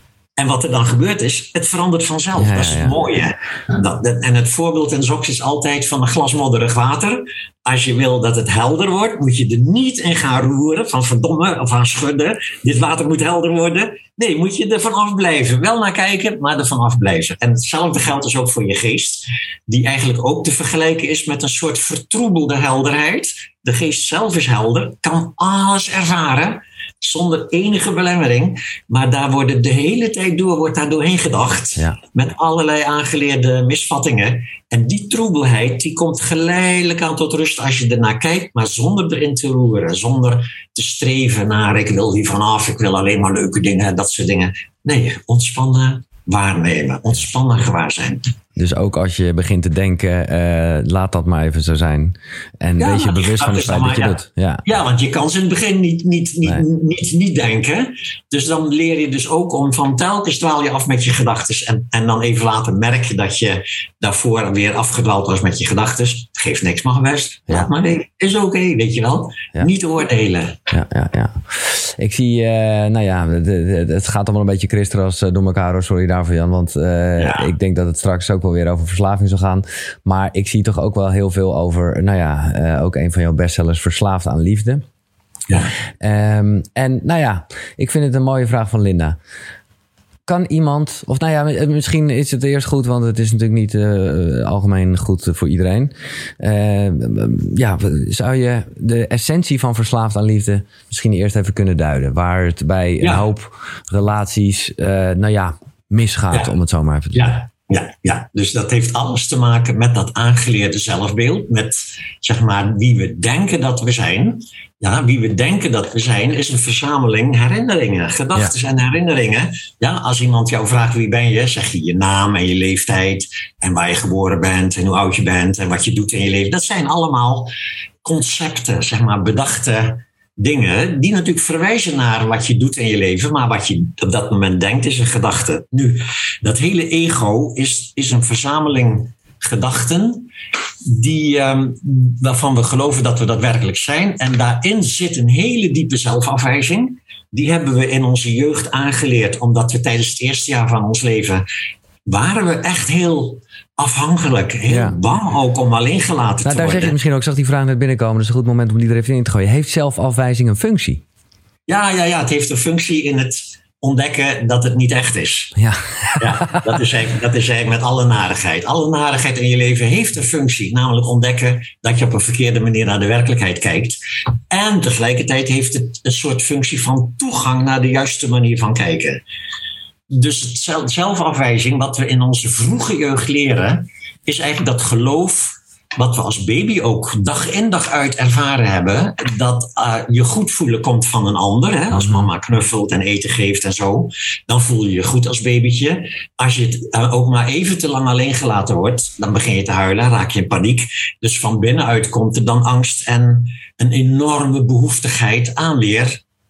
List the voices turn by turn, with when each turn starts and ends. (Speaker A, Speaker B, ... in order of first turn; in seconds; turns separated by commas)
Speaker A: 0.4-48.2, Speaker B: 2.4-3.0, Speaker B: 48.6-54.6, Speaker A: 52.8-70.6, Speaker B: 70.7-84.8, Speaker A: 77.2-77.5, Speaker B: 86.0-89.2, Speaker B: 90.3-107.3, Speaker A: 107.1-127.5, Speaker A: 128.0-140.3, Speaker A: 140.9-151.4, Speaker A: 152.1-156.9, Speaker B: 154.7-154.9, Speaker B: 156.4-161.0, Speaker A: 161.7-165.6, Speaker B: 165.6-166.7, Speaker A: 166.2-174.0, Speaker A: 174.5-179.2, Speaker A: 180.1-206.2, Speaker B: 191.9-192.3